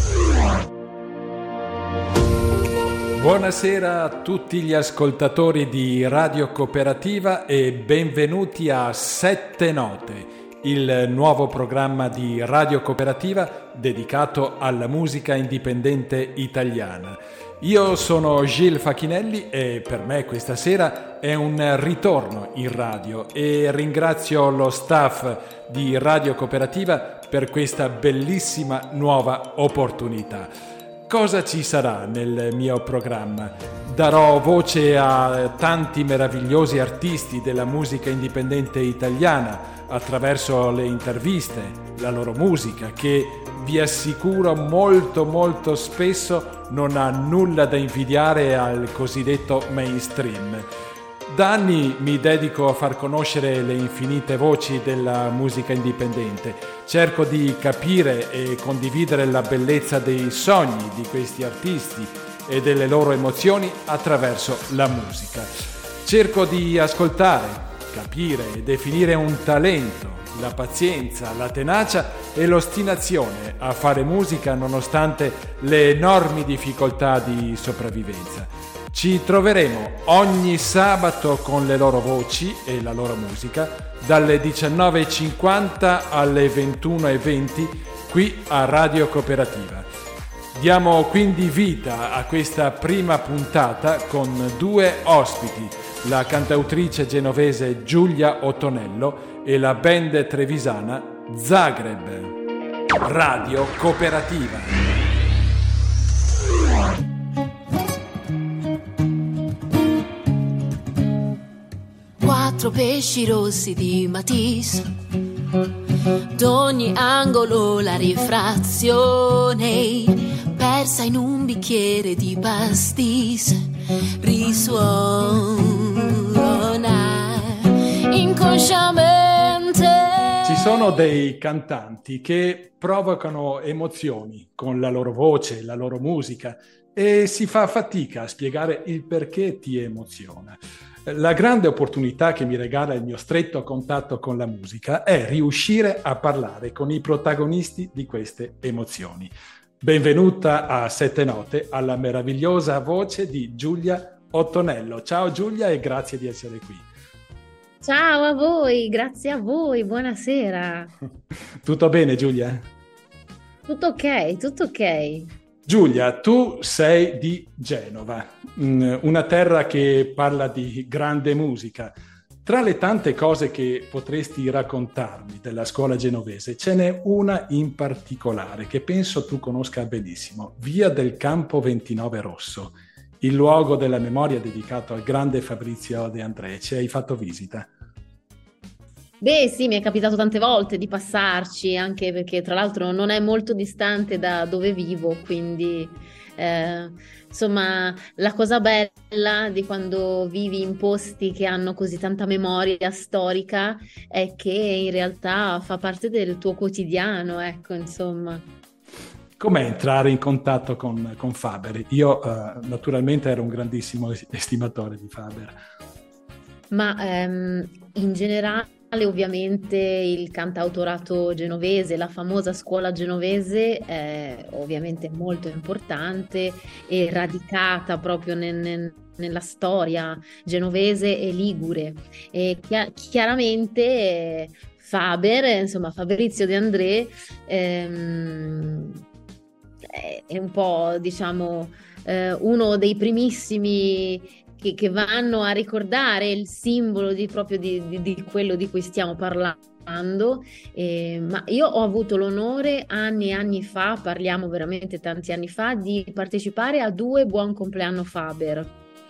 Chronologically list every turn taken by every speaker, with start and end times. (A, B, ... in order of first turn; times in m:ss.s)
0:03.2-0:30.5 A
0:31.1-0:50.7 A
0:51.3-1:05.5 A
1:06.0-1:29.9 A
1:30.5-1:42.3 A
1:43.0-1:44.7 A
1:52.2-1:54.9 B
1:56.3-2:03.7 B
2:04.2-2:10.7 B
2:10.4-2:36.8 A
2:37.8-2:40.9 C
2:41.6-2:42.6 A
2:43.7-2:45.3 C
2:45.7-3:07.7 A
3:09.2-3:28.5 C
3:29.4-3:35.5 A
3:36.7-3:59.0 C
3:59.8-4:18.7 C